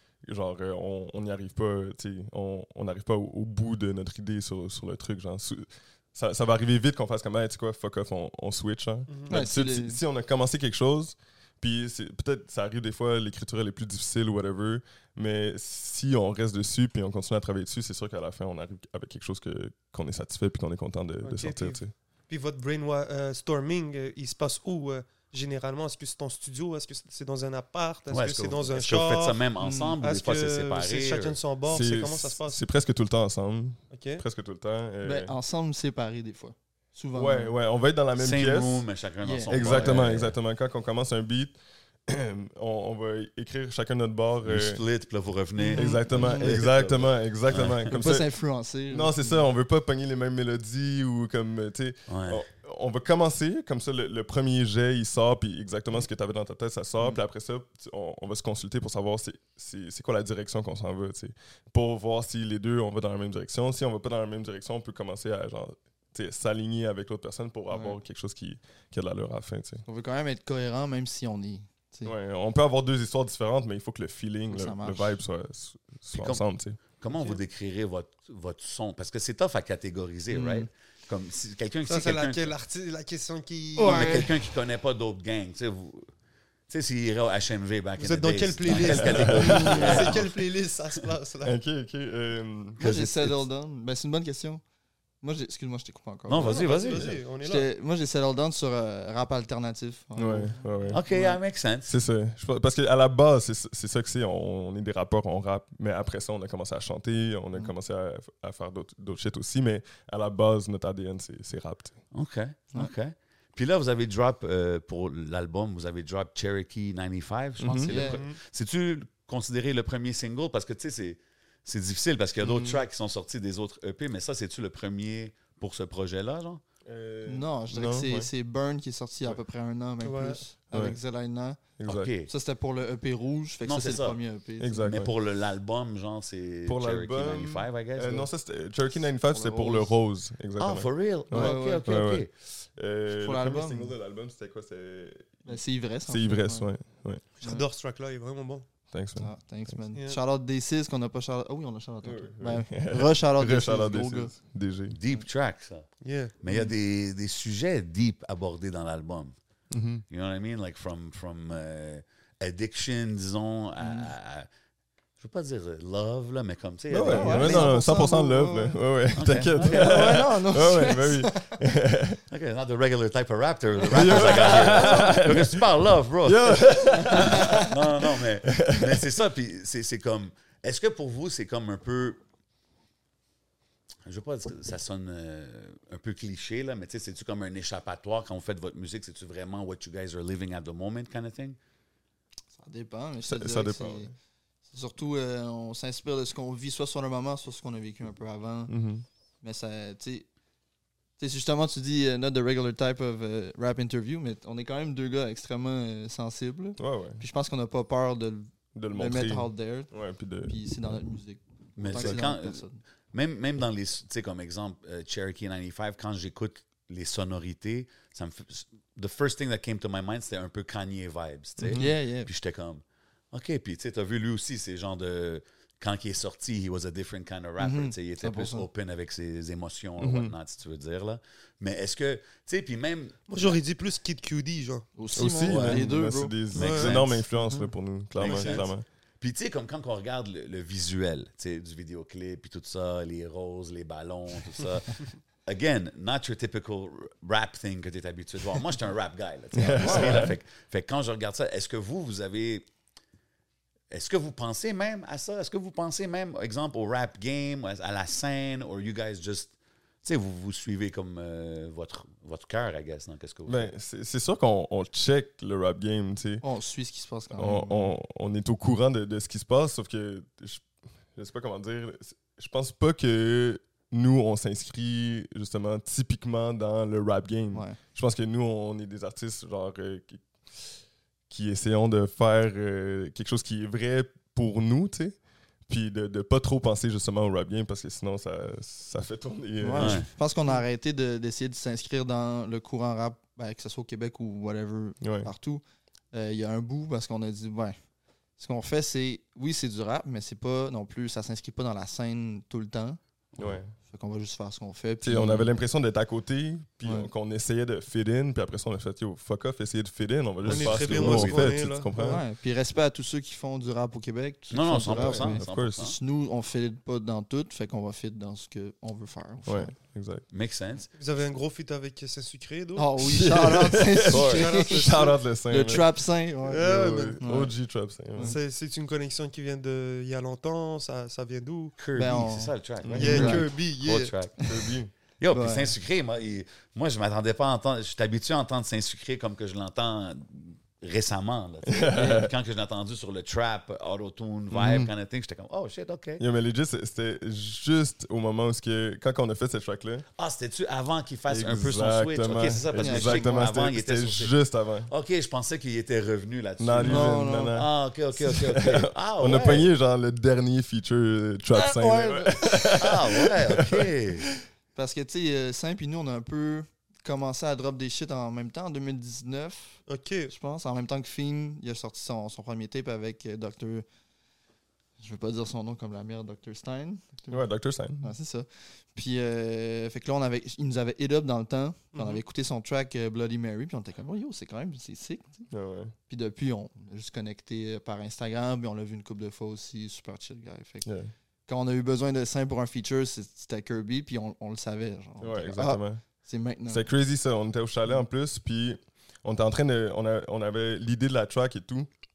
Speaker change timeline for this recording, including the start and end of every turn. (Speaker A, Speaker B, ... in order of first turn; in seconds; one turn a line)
Speaker A: 0.2-21.9
Speaker B: 9.3-10.0
Speaker C: 21.2-29.4
Speaker D: 28.1-31.4
Speaker B: 29.6-29.9
Speaker C: 30.0-32.6
Speaker A: 31.7-35.3
Speaker C: 33.9-34.2
Speaker B: 35.0-37.6
Speaker A: 37.1-38.8
Speaker D: 38.2-40.3
Speaker B: 39.2-39.9
Speaker A: 39.5-41.5
Speaker A: 42.1-44.8
Speaker D: 44.4-47.9
Speaker B: 45.6-46.8
Speaker A: 45.7-48.3
Speaker B: 47.9-49.4
Speaker A: 48.9-69.8
Speaker D: 52.1-52.4
Speaker B: 67.7-68.0
Speaker B: 69.8-72.1
Speaker A: 72.0-76.8
Speaker B: 74.5-75.2
Speaker D: 76.1-82.5
Speaker B: 80.3-80.7
Speaker C: 81.9-84.3
Speaker B: 83.8-84.3
Speaker D: 83.8-86.1
Speaker D: 86.7-90.4
Speaker C: 88.0-91.5
Speaker A: 88.9-90.0
Speaker B: 89.1-90.1
Speaker A: 91.4-92.8
Speaker B: 92.8-94.6
Speaker D: 92.8-93.4
Speaker B: 95.2-96.7
Speaker D: 96.3-97.1
Speaker C: 96.4-97.7
Speaker A: 96.9-97.2
Speaker B: 97.4-101.4
Speaker A: 100.2-101.0
Speaker D: 100.9-101.9
Speaker A: 101.9-112.0
Speaker D: 112.1-126.6
Speaker A: 117.6-117.9
Speaker B: 117.9-118.2
Speaker C: 117.9-118.4
Speaker A: 122.4-122.8
Speaker A: 126.9-128.3
Speaker B: 127.2-131.6
Speaker C: 130.0-130.4
Speaker A: 130.7-131.0
Speaker A: 131.8-132.1
Speaker D: 131.9-132.3
Speaker B: 132.3-134.9
Speaker D: 133.6-134.2
Speaker A: 134.6-135.1
Speaker D: 134.8-138.3
Speaker A: 136.7-147.2
Speaker B: 138.9-140.0
Speaker D: 140.6-142.3
Speaker B: 141.3-141.8
Speaker B: 143.2-143.9
Speaker B: 145.4-146.7
Speaker C: 147.4-148.6
Speaker A: 148.9-149.8
Speaker B: 149.2-154.3
Speaker A: 152.0-155.0
Speaker D: 154.9-159.3
Speaker C: 156.0-156.3
Speaker A: 159.7-160.0
Speaker D: 160.1-164.5
Speaker B: 163.8-164.1
Speaker D: 165.2-167.8
Speaker A: 166.9-172.2
Speaker B: 167.0-168.8
Speaker D: 169.2-170.2
Speaker B: 169.6-171.6
Speaker D: 172.3-182.2
Speaker A: 173.9-179.1
Speaker B: 177.1-177.6
Speaker D: 184.1-191.6
Speaker B: 192.5-194.1
Speaker A: 193.2-194.1
Speaker B: 194.7-198.7
Speaker A: 198.7-199.1
Speaker B: 199.4-200.3
Speaker B: 201.2-209.9
Speaker A: 206.8-207.2
Speaker A: 208.8-210.5
Speaker B: 210.4-212.8
Speaker D: 211.8-233.6
Speaker A: 211.9-212.2
Speaker A: 221.6-221.9
Speaker B: 221.7-222.3
Speaker B: 227.6-228.7
Speaker A: 230.0-230.3
Speaker C: 233.3-234.9
Speaker B: 234.9-236.4
Speaker A: 235.1-238.8
Speaker D: 235.4-235.9
Speaker C: 236.5-237.0
Speaker D: 236.5-237.2
Speaker B: 237.4-237.7
Speaker D: 238.2-252.7
Speaker C: 238.2-238.7
Speaker A: 249.5-250.4
Speaker B: 249.8-250.3
Speaker D: 253.9-263.7
Speaker A: 263.5-266.4
Speaker B: 266.4-267.9
Speaker A: 267.3-280.7
Speaker B: 277.5-277.8
Speaker A: 281.3-285.1
Speaker A: 285.7-290.1
Speaker B: 289.6-295.6
Speaker D: 289.8-290.1
Speaker A: 295.0-295.3
Speaker B: 296.1-297.8
Speaker B: 298.4-303.0
Speaker D: 303.3-303.6
Speaker A: 303.4-303.7
Speaker B: 303.9-305.5
Speaker A: 305.0-312.2
Speaker B: 306.8-307.1
Speaker C: 310.4-312.2
Speaker D: 310.5-311.5
Speaker B: 311.9-319.7
Speaker D: 314.5-316.0
Speaker A: 314.9-315.9
Speaker A: 319.4-320.2
Speaker D: 320.3-320.9
Speaker C: 321.0-322.9
Speaker B: 322.8-327.5
Speaker A: 323.0-325.9
Speaker D: 324.1-324.4
Speaker C: 324.2-325.2
Speaker C: 326.5-327.2
Speaker A: 326.5-328.4
Speaker C: 328.2-331.8
Speaker D: 331.8-334.3
Speaker B: 331.9-333.5
Speaker A: 332.9-333.4
Speaker C: 333.0-334.1
Speaker B: 334.4-334.8
Speaker A: 334.5-334.9
Speaker D: 335.2-346.2
Speaker B: 335.3-335.7
Speaker A: 341.7-342.3
Speaker A: 344.5-344.9
Speaker A: 346.2-350.0
Speaker D: 350.2-354.3
Speaker A: 351.3-354.9
Speaker B: 352.7-353.5
Speaker D: 354.9-359.7
Speaker A: 356.6-364.3
Speaker B: 356.8-357.6
Speaker B: 361.5-362.8
Speaker D: 362.8-364.3
Speaker B: 364.8-373.9
Speaker C: 369.9-370.3
Speaker B: 375.0-377.4
Speaker A: 377.3-378.1
Speaker B: 378.0-385.4
Speaker C: 381.9-382.2
Speaker A: 385.5-385.9
Speaker B: 386.1-390.9
Speaker A: 390.9-391.1
Speaker B: 391.5-396.9
Speaker A: 395.2-396.0
Speaker A: 396.7-401.9